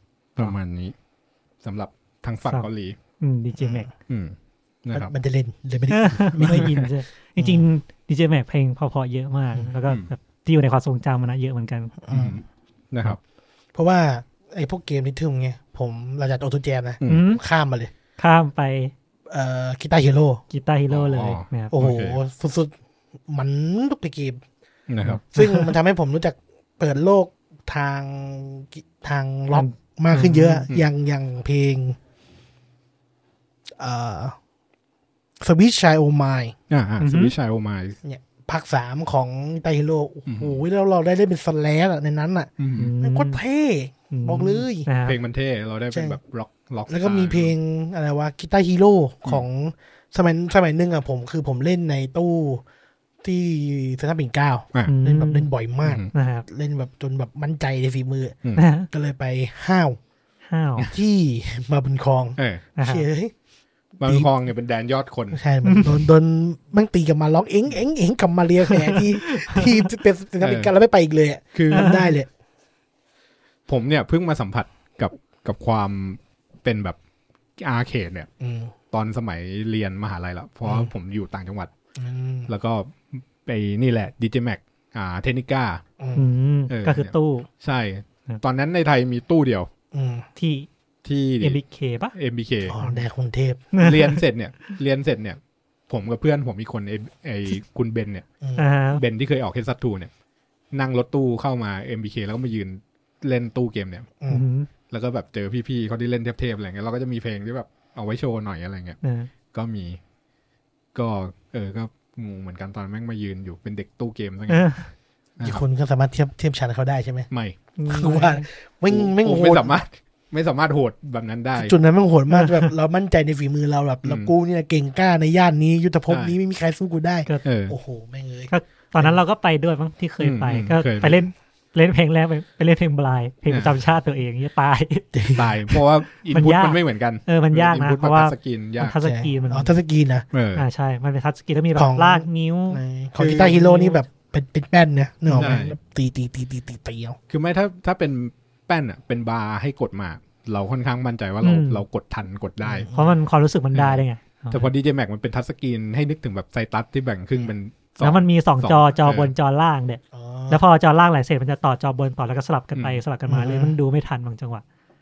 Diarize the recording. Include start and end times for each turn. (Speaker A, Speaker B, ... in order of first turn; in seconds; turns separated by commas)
Speaker A: 0.3-0.9, Speaker A: 1.6-3.0, Speaker B: 3.2-3.9, Speaker C: 3.6-3.9, Speaker A: 4.1-5.1, Speaker C: 4.9-6.7, Speaker B: 5.9-11.9, Speaker A: 6.4-6.9, Speaker C: 7.4-7.6, Speaker C: 12.0-12.4, Speaker A: 12.1-13.2, Speaker C: 13.7-17.9, Speaker B: 17.1-17.4, Speaker B: 18.2-18.9, Speaker C: 19.3-20.4, Speaker B: 20.5-21.7, Speaker A: 20.9-22.2, Speaker C: 21.7-22.7, Speaker C: 23.3-24.4, Speaker A: 24.9-25.2, Speaker B: 25.0-25.7, Speaker C: 25.3-32.0, Speaker B: 29.5-30.6, Speaker C: 33.8-34.4, Speaker C: 35.4-36.5, Speaker A: 36.7-38.0, Speaker B: 37.0-37.3, Speaker C: 38.0-44.9, Speaker A: 40.3-40.6, Speaker A: 42.6-42.9, Speaker B: 42.8-43.4, Speaker B: 44.1-45.2, Speaker A: 45.0-47.5, Speaker C: 45.9-46.2, Speaker C: 46.9-52.6, Speaker C: 53.2-58.4, Speaker B: 54.9-55.5, Speaker A: 55.8-56.1, Speaker B: 56.1-56.5, Speaker B: 58.6-58.9, Speaker C: 58.9-60.0, Speaker B: 60.5-60.9, Speaker C: 60.9-63.3, Speaker A: 62.4-62.6, Speaker B: 62.8-63.1, Speaker A: 64.0-65.4, Speaker C: 64.0-64.3, Speaker C: 65.3-72.3, Speaker B: 65.6-66.0, Speaker B: 68.8-69.7, Speaker A: 70.4-70.7, Speaker A: 71.5-71.9, Speaker B: 71.7-72.1, Speaker A: 73.7-77.0, Speaker A: 77.6-78.3, Speaker C: 78.4-78.7, Speaker A: 78.9-81.7, Speaker C: 80.6-80.9, Speaker C: 82.0-82.5, Speaker A: 82.5-85.8, Speaker C: 86.0-86.3, Speaker B: 86.2-87.5, Speaker A: 86.7-89.7, Speaker C: 89.9-90.3, Speaker B: 90.4-90.7, Speaker A: 91.0-91.6, Speaker B: 91.4-92.1, Speaker A: 92.1-92.7, Speaker C: 92.7-93.6, Speaker B: 93.7-94.8, Speaker A: 93.8-98.2, Speaker B: 98.6-99.0, Speaker A: 98.9-100.1, Speaker A: 100.7-104.1, Speaker B: 104.3-104.7, Speaker A: 104.9-109.0, Speaker B: 109.0-109.3, Speaker A: 109.5-110.0, Speaker A: 110.9-114.7, Speaker B: 114.5-114.9, Speaker C: 115.4-117.3, Speaker A: 117.3-117.6, Speaker B: 117.8-118.5, Speaker C: 117.9-119.8, Speaker A: 118.9-121.7, Speaker C: 121.6-129.2, Speaker B: 122.3-122.7, Speaker A: 124.0-124.3, Speaker A: 126.1-126.3, Speaker A: 127.4-127.7, Speaker B: 128.5-135.8, Speaker A: 130.2-131.2, Speaker A: 133.5-133.7, Speaker C: 135.1-135.4, Speaker A: 135.4-139.0, Speaker B: 136.3-139.7, Speaker C: 138.9-140.2, Speaker A: 140.3-140.7, Speaker B: 140.6-144.0, Speaker C: 141.8-147.2, Speaker A: 143.2-143.6, Speaker A: 145.3-145.8, Speaker A: 147.3-152.9, Speaker B: 151.4-151.8, Speaker C: 152.7-153.1, Speaker B: 152.9-154.7, Speaker A: 153.7-159.3, Speaker B: 158.0-164.6, Speaker C: 160.1-160.6, Speaker A: 162.7-163.0, Speaker C: 163.3-163.8